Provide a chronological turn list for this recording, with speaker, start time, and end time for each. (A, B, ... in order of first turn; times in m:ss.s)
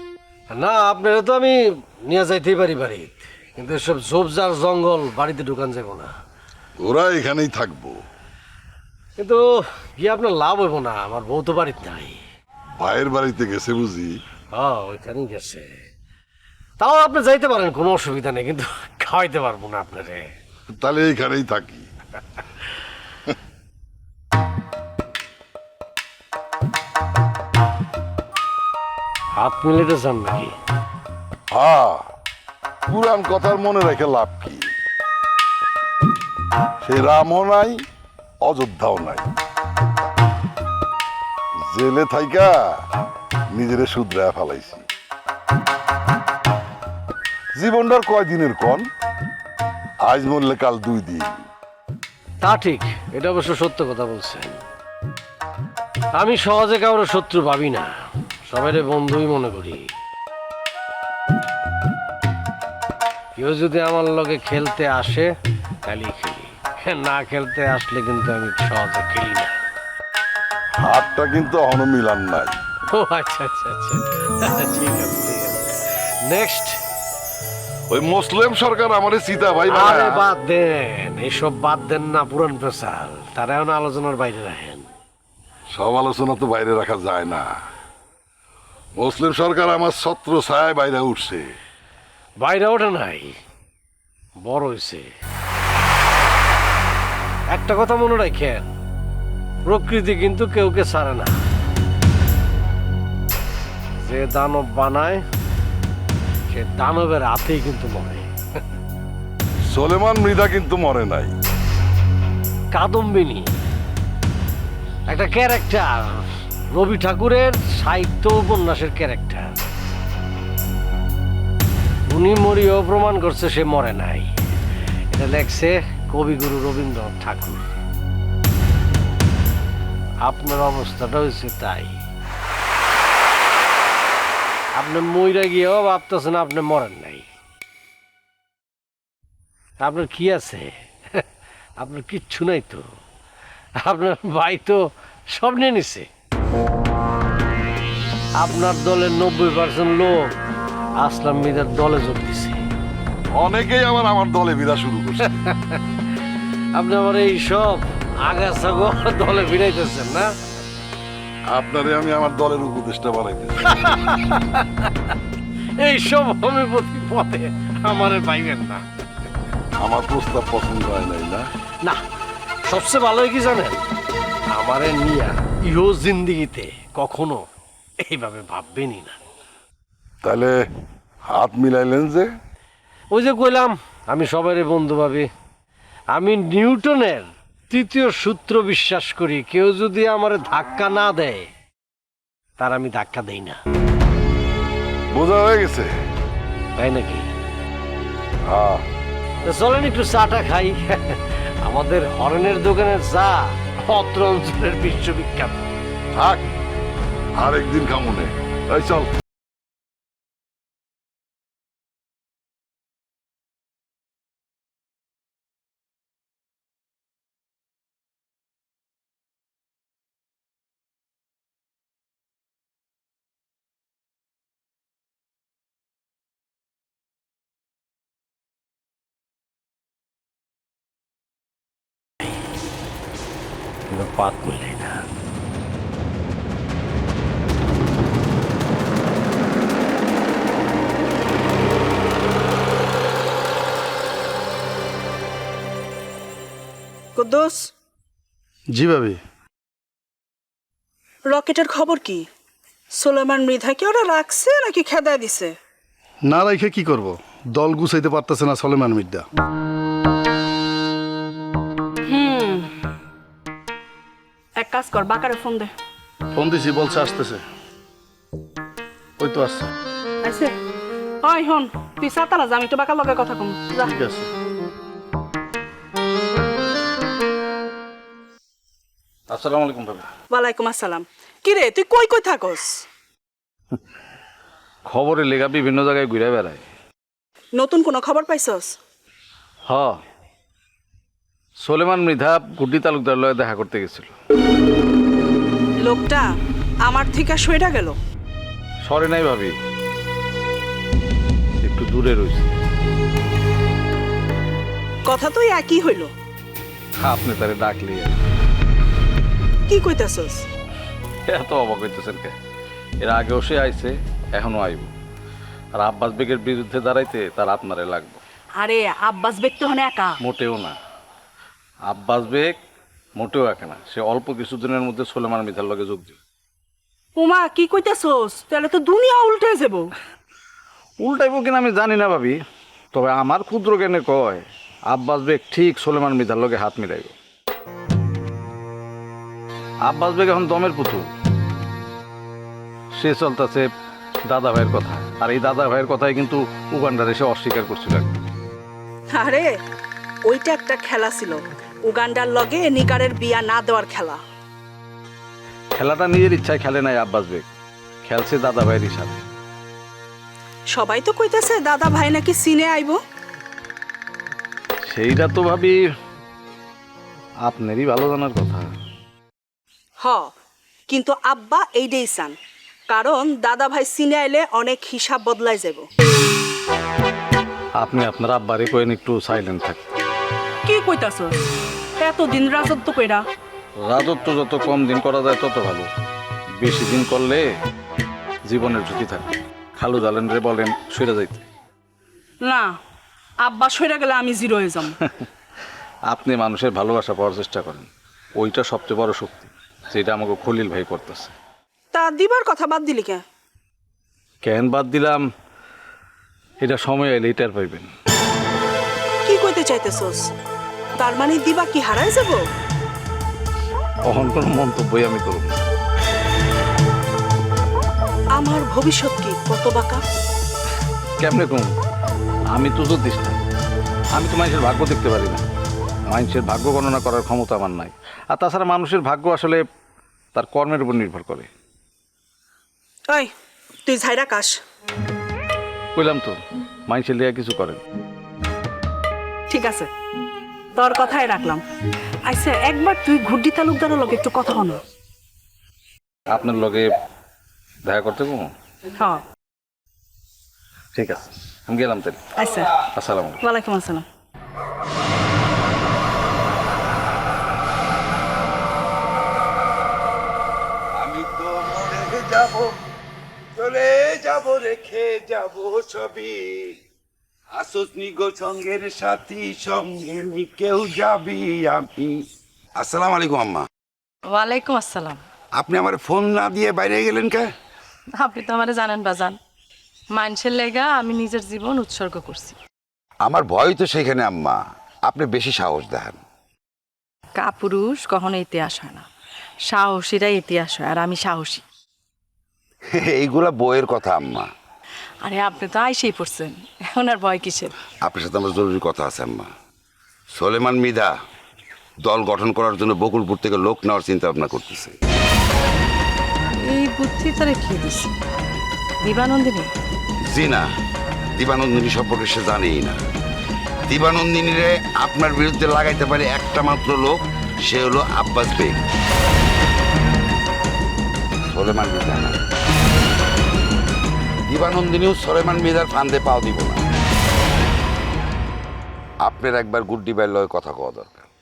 0:00.5-0:06.1 A
0:06.8-0:08.0 B
0:09.2-0:12.2 A
0:12.8-0:14.1 B
0:14.5-0:15.7 A
0:16.8-0:20.3 A
0:20.7-0:21.8 B
0:29.4-0:30.6 A
0:31.5-0:32.0 B
0:32.9-0:34.7 B
0:36.8-0:37.8 B
0:38.4-0:39.3 B
0:41.7-0:42.5 B
0:43.5-0:44.8 B
0:47.6-0:48.9 B
0:50.0-0:51.3 B
0:52.4-0:54.6 A
0:56.1-0:57.9 A
0:58.5-0:59.9 A
1:03.4-1:05.3 A
1:05.8-1:09.6 A
1:10.8-1:12.6 B
1:12.9-1:15.6 A
1:16.2-1:16.8 A
1:17.9-1:20.2 B
1:19.7-1:24.9 A
1:25.7-1:27.5 B
1:29.0-1:31.6 B
1:32.4-1:33.4 A
1:34.4-1:35.1 A
1:37.5-1:38.7 A
1:39.7-1:41.4 A
1:44.0-1:45.2 A
1:46.5-1:48.2 A
1:49.7-1:51.3 B
1:52.7-1:53.5 A
1:55.1-1:59.5 A
2:02.1-2:04.3 A
2:05.1-2:07.6 A
2:10.2-2:11.9 A
2:14.7-2:17.3 A
2:19.8-2:21.2 A
2:21.8-2:22.9 A
2:23.8-2:26.1 A
2:28.4-2:30.3 A
2:31.0-2:32.6 A
2:33.3-2:35.4 B
2:35.5-2:35.8 A
2:36.7-2:40.3 A
2:41.5-2:43.7 B
2:43.9-2:44.6 A
2:45.8-2:48.8 A
2:49.8-2:51.5 B
2:52.6-2:53.8 A
2:54.5-2:57.4 A
2:58.0-2:59.2 A
3:00.2-3:00.6 B
3:01.3-3:02.3 B
3:03.1-3:05.3 A
3:06.1-3:11.5 A
3:12.6-3:13.6 A
3:15.1-3:15.9 B
3:16.8-3:17.3 A
3:18.5-3:18.8 B
3:19.4-3:25.7 A
3:26.2-3:26.4 B
3:27.4-3:29.1 B
3:53.9-3:55.0 A
4:07.2-4:07.6 C
4:08.7-4:09.2 D
4:11.3-4:12.2 C
4:13.0-4:15.5 C
4:16.2-4:19.2 D
4:22.1-4:22.6 C
4:24.6-4:25.7 C
4:26.3-4:27.4 D
4:29.2-4:29.7 D
4:30.2-4:30.5 C
4:31.2-4:33.9 C
4:33.8-4:34.3 D
4:39.3-4:40.1 E
4:40.3-4:42.8 C
4:44.9-4:46.6 E
4:47.6-4:48.7 C
4:49.6-4:50.0 E
4:51.6-4:54.1 E
4:55.8-4:56.3 C
4:56.9-4:57.9 C
4:58.8-4:59.5 E
5:01.6-5:02.5 E
5:05.1-5:06.1 C
5:07.0-5:08.2 E
5:09.7-5:10.4 C
5:11.3-5:12.3 E
5:13.0-5:14.9 E
5:15.8-5:18.2 E
5:18.6-5:20.1 C
5:20.2-5:20.8 E
5:21.9-5:22.6 E
5:23.2-5:26.2 E
5:27.2-5:29.8 C
5:31.0-5:32.4 E
5:32.9-5:37.1 E
5:39.8-5:41.0 E
5:43.0-5:43.6 E
5:44.3-5:48.1 E
5:49.1-5:49.5 C
5:50.3-5:54.2 C
5:55.7-5:57.4 E
5:58.0-5:59.2 E
6:00.7-6:03.0 C
6:04.9-6:05.8 E
6:07.4-6:08.7 E
6:10.0-6:10.3 C
6:10.9-6:12.4 C
6:12.9-6:15.8 C
6:17.8-6:19.8 E
6:20.7-6:21.3 C
6:22.0-6:23.2 C
6:23.8-6:25.9 E
6:26.6-6:27.5 E
6:28.5-6:31.4 E
6:32.4-6:32.7 C
6:33.4-6:34.9 C
6:36.1-6:41.3 E
6:41.9-6:43.2 C
6:44.4-6:45.2 E
6:46.6-6:47.9 E
6:49.2-6:50.2 C
6:51.0-6:52.4 C
6:54.1-6:55.6 E
6:58.4-7:00.0 C
7:01.2-7:01.7 E
7:02.5-7:03.4 E
7:04.1-7:05.4 E
7:06.1-7:09.6 E
7:10.3-7:11.5 E
7:13.9-7:14.6 C
7:15.9-7:16.4 E
7:16.9-7:17.8 E
7:19.5-7:19.9 C
7:20.8-7:21.6 C
7:22.3-7:24.8 C
7:26.3-7:26.9 E
7:27.8-7:28.5 E
7:30.9-7:32.2 E
7:32.4-7:32.7 C
7:32.9-7:33.4 E
7:33.4-7:34.0 C
7:41.0-7:42.8 F
7:43.6-7:46.8 F
7:47.5-7:52.2 F
7:52.8-7:53.6 F
7:54.3-7:55.2 G
7:55.6-7:57.5 F
7:58.2-7:59.4 G
8:00.1-8:02.6 G
8:03.2-8:06.2 F
8:07.4-8:09.0 G
8:09.7-8:11.6 G
8:12.9-8:14.5 F
8:15.2-8:17.7 G
8:18.0-8:19.5 F
8:20.3-8:21.1 F
8:22.0-8:24.9 F
8:26.7-8:28.1 G
8:29.0-8:29.7 G
8:30.3-8:30.6 F
8:31.4-8:33.0 F
8:33.9-8:38.8 F
8:41.5-8:42.4 F
8:44.5-8:46.8 F
8:49.2-8:51.3 F